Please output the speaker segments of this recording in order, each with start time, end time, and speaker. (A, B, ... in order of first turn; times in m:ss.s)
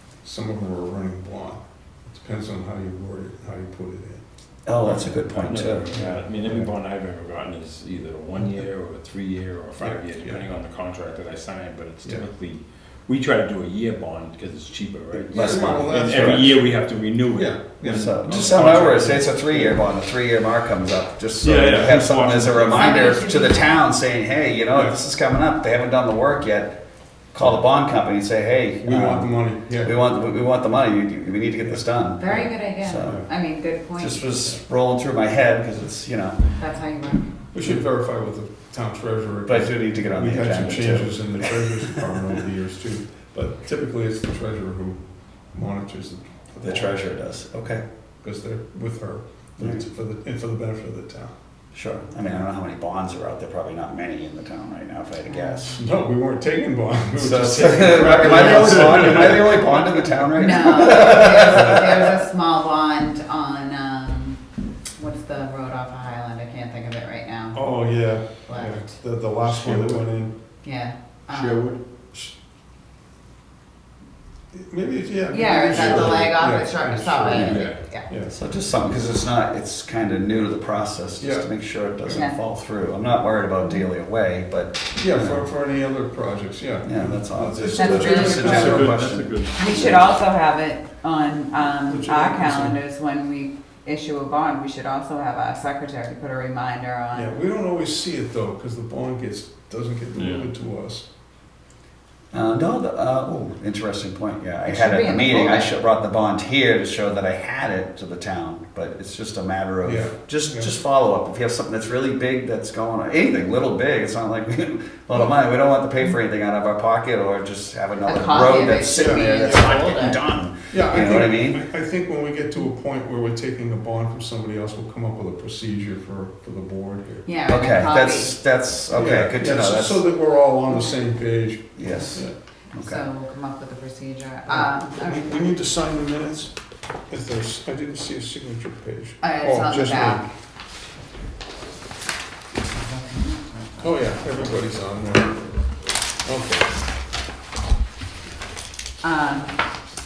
0:00.2-0:04.2 A
0:04.7-0:06.0 B
0:05.3-0:19.7 C
0:05.9-0:06.2 A
0:09.8-0:10.4 A
0:15.1-0:16.7 A
0:15.3-0:16.4 B
0:17.4-0:18.6 A
0:17.9-0:36.6 B
0:21.4-0:23.0 C
0:22.7-0:23.8 D
0:28.8-0:29.9 A
0:32.2-0:34.2 D
0:33.0-0:33.3 A
0:36.6-0:37.3 D
0:37.5-0:47.0 A
0:39.5-0:41.7 B
0:46.6-0:47.8 B
0:47.7-0:51.3 A
0:51.7-0:55.8 B
0:55.2-0:55.8 D
0:55.8-0:59.6 A
0:57.2-1:02.2 B
1:00.3-1:04.4 D
1:01.4-1:01.8 A
1:05.0-1:07.9 D
1:07.5-1:10.3 A
1:08.4-1:09.0 D
1:09.4-1:10.0 C
1:10.6-1:11.7 D
1:11.3-1:11.8 C
1:14.5-1:18.3 A
1:15.3-1:18.1 D
1:17.3-1:17.6 B
1:17.4-1:17.8 C
1:18.3-1:25.4 B
1:21.2-1:21.5 A
1:22.1-1:22.4 D
1:25.0-1:29.0 A
1:26.8-1:29.8 B
1:27.7-1:28.8 D
1:28.5-1:30.1 C
1:29.5-1:37.3 D
1:31.8-1:32.8 A
1:37.1-1:41.0 A
1:40.2-1:40.4 C
1:42.3-2:01.6 B
1:44.6-1:45.7 D
1:49.8-1:50.8 A
1:58.0-2:00.2 D
1:59.0-1:59.6 A
2:00.7-2:07.2 A
2:07.2-2:08.4 D
2:07.5-2:10.0 B
2:08.9-2:12.3 A
2:11.8-2:13.1 B
2:12.7-2:15.4 D
2:14.5-2:16.6 A
2:17.1-2:20.3 A
2:19.2-2:20.3 D
2:22.7-2:24.0 D
2:23.8-2:25.5 A
2:26.2-2:26.7 A
2:29.0-2:29.6 D